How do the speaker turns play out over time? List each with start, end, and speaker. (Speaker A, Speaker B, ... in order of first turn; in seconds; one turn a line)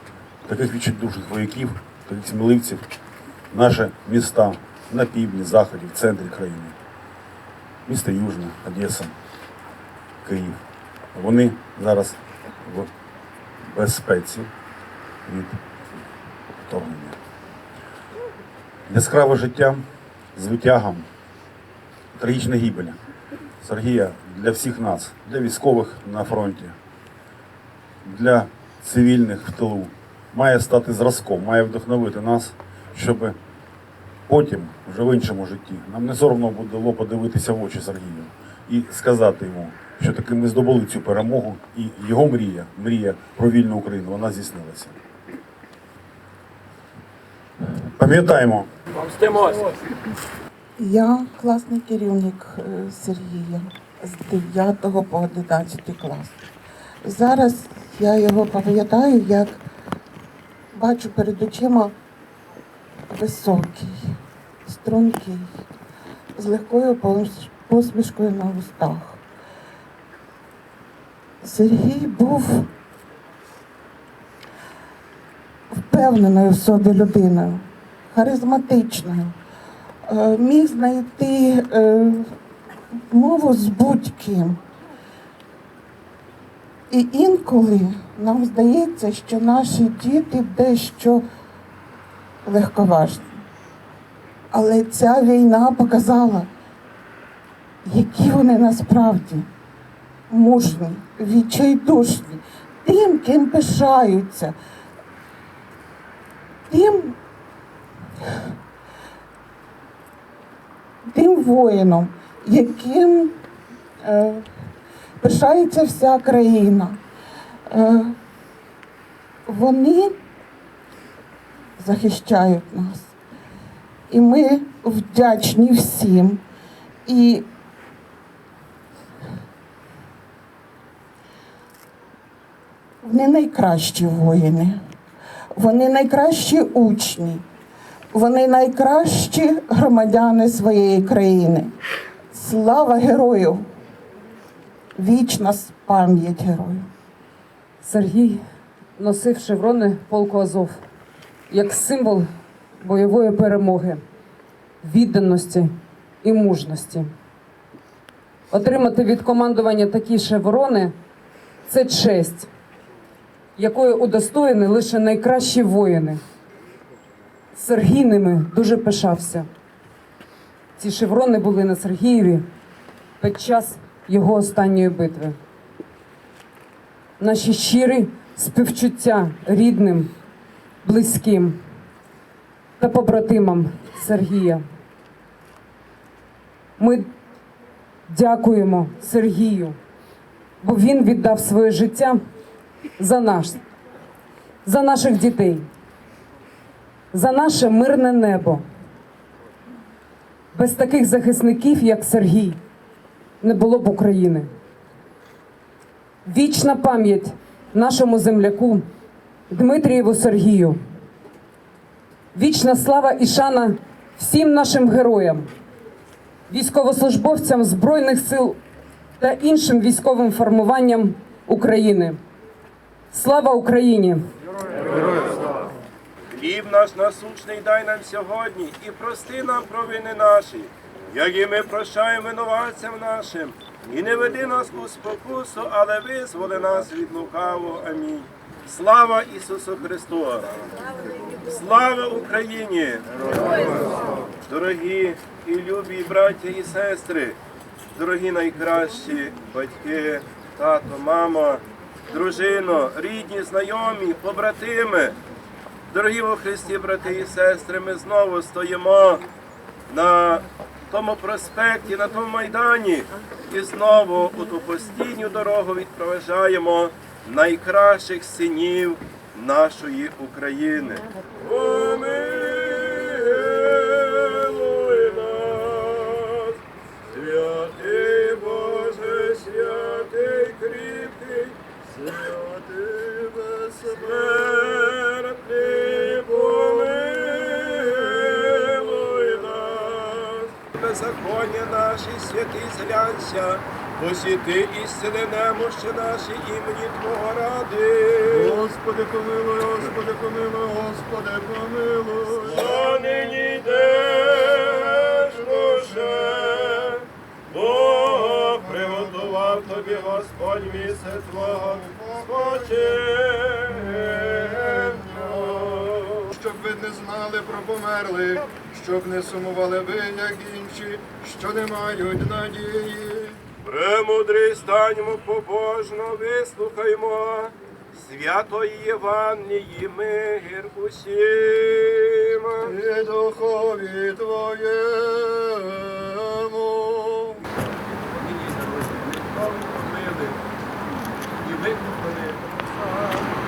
Speaker A: 0.4-2.9
Speaker A: 3.5-6.8
Speaker A: 7.8-9.1
Speaker A: 10.2-10.6
Speaker A: 11.1-12.9
Speaker A: 13.6-14.5
Speaker A: 15.2-15.6
Speaker A: 16.6-17.2
Speaker A: 18.9-21.1
Speaker A: 22.1-23.0
Speaker A: 23.6-26.8
Speaker A: 28.0-33.4
Speaker A: 34.3-45.0
Speaker A: 47.9-48.7
Speaker B: 49.2-49.6
Speaker C: 50.8-56.4
Speaker C: 57.0-59.6
Speaker C: 60.7-61.9
Speaker C: 63.1-65.6
Speaker C: 66.3-69.2
Speaker C: 71.4-72.7
Speaker C: 75.7-79.3
Speaker C: 80.0-82.3
Speaker C: 83.1-84.6
Speaker C: 86.9-91.2
Speaker C: 92.4-93.4
Speaker C: 94.5-96.5
Speaker C: 97.8-99.5
Speaker C: 100.3-104.5
Speaker C: 106.7-107.2
Speaker C: 111.1-113.4
Speaker C: 114.0-114.7
Speaker C: 115.2-117.0
Speaker C: 117.7-118.2
Speaker C: 119.5-120.2
Speaker C: 121.8-123.1
Speaker C: 124.1-126.4
Speaker C: 127.0-127.5
Speaker C: 133.0-134.8
Speaker C: 135.5-137.4
Speaker C: 138.1-141.7
Speaker C: 142.3-143.7
Speaker C: 144.9-146.9
Speaker D: 147.8-148.4
Speaker D: 149.0-150.8
Speaker D: 151.5-154.0
Speaker D: 154.8-157.1
Speaker D: 158.5-160.9
Speaker D: 161.7-162.5
Speaker D: 163.6-166.2
Speaker D: 167.5-169.5
Speaker D: 170.8-172.5
Speaker D: 173.2-175.4
Speaker D: 177.2-180.1
Speaker D: 180.8-181.6
Speaker D: 182.8-184.6
Speaker D: 186.8-187.1
Speaker D: 188.1-189.8
Speaker D: 190.6-192.2
Speaker D: 193.0-193.6
Speaker D: 194.6-195.7
Speaker D: 197.1-198.6
Speaker D: 200.5-202.6
Speaker D: 203.4-204.5
Speaker D: 206.2-208.9
Speaker D: 209.5-210.8
Speaker D: 212.3-215.5
Speaker D: 216.5-218.6
Speaker D: 219.2-222.2
Speaker D: 223.1-224.3
Speaker E: 226.3-240.5
Speaker E: 241.4-243.6
Speaker E: 244.4-247.4
Speaker E: 247.9-255.2
Speaker E: 255.9-259.2
Speaker E: 259.9-276.6
Speaker E: 277.1-281.6
Speaker B: 281.9-284.8
Speaker E: 283.8-298.6
Speaker B: 285.8-288.5
Speaker B: 298.2-303.6
Speaker E: 302.4-316.3
Speaker B: 304.4-306.8
Speaker B: 308.0-310.1
Speaker B: 311.1-312.9
Speaker B: 314.0-323.4
Speaker E: 323.6-332.8
Speaker B: 332.6-337.4
Speaker E: 337.9-340.4
Speaker E: 341.4-343.2